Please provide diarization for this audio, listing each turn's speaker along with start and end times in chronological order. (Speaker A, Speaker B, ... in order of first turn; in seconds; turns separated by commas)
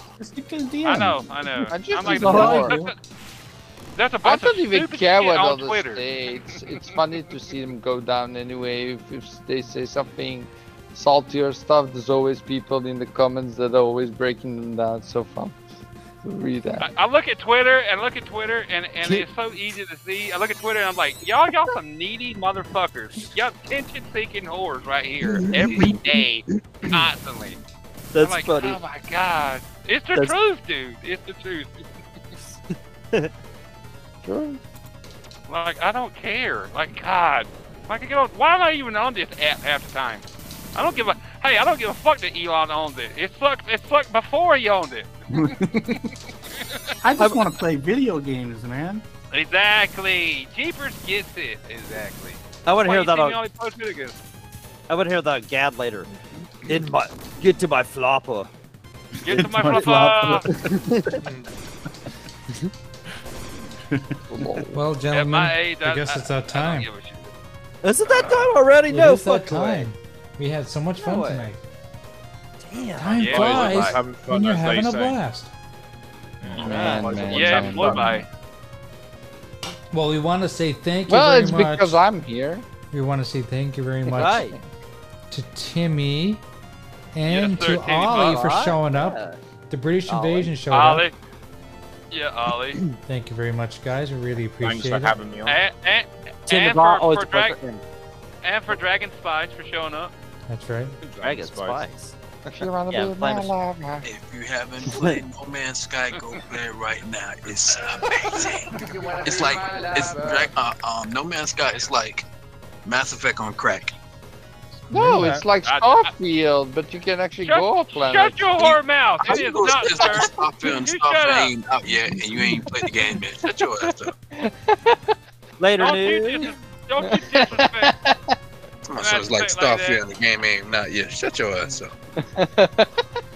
Speaker A: 0.2-2.9, Speaker B: 0.8-3.0, Speaker C: 1.7-2.8, Speaker B: 4.0-6.0, Speaker C: 4.2-15.6, Speaker C: 16.2-16.9, Speaker B: 16.8-27.6, Speaker D: 25.5-25.7, Speaker E: 28.1-28.8, Speaker B: 28.2-31.9, Speaker E: 32.7-33.3, Speaker C: 34.2-34.6, Speaker B: 35.5-45.1, Speaker A: 45.3-46.1, Speaker A: 47.0-49.0, Speaker E: 47.2-47.4, Speaker B: 49.3-54.2, Speaker E: 52.7-53.4, Speaker E: 54.9-56.1, Speaker E: 56.7-58.5, Speaker B: 59.2-60.5, Speaker A: 59.2-61.2, Speaker D: 61.2-61.5, Speaker A: 63.9-64.5, Speaker C: 64.3-64.7, Speaker F: 64.7-66.9, Speaker B: 65.1-67.3, Speaker E: 67.8-69.9, Speaker B: 68.0-68.5, Speaker F: 68.9-71.6, Speaker E: 71.0-71.5, Speaker E: 72.6-73.6, Speaker F: 73.0-75.5, Speaker B: 73.2-74.0, Speaker D: 73.2-75.2, Speaker D: 76.4-78.2, Speaker C: 76.5-78.1, Speaker E: 76.5-77.3, Speaker B: 77.2-78.3, Speaker F: 79.9-82.0, Speaker C: 81.1-82.7, Speaker F: 82.9-84.5, Speaker E: 84.1-84.6, Speaker C: 84.4-84.7, Speaker F: 85.3-86.4, Speaker F: 87.1-91.1, Speaker B: 87.3-88.5, Speaker E: 88.1-89.4, Speaker E: 90.1-90.5, Speaker B: 90.7-91.1, Speaker B: 92.1-92.8, Speaker F: 93.0-95.2, Speaker D: 94.6-95.6, Speaker B: 95.5-97.6, Speaker E: 96.5-97.8, Speaker B: 98.4-100.1, Speaker F: 100.5-101.0, Speaker D: 101.0-101.9, Speaker E: 101.2-102.2, Speaker C: 102.5-104.1, Speaker E: 102.9-103.5, Speaker G: 104.0-112.3, Speaker E: 104.8-105.2, Speaker C: 108.7-110.5, Speaker G: 112.8-113.9, Speaker D: 114.8-115.5, Speaker C: 114.9-118.6, Speaker B: 115.7-116.1, Speaker B: 117.4-121.5, Speaker G: 118.7-124.1, Speaker C: 122.0-125.2, Speaker E: 125.6-126.4, Speaker B: 125.8-128.0, Speaker C: 127.0-128.3, Speaker G: 128.9-131.9, Speaker B: 129.0-130.0, Speaker C: 132.2-132.9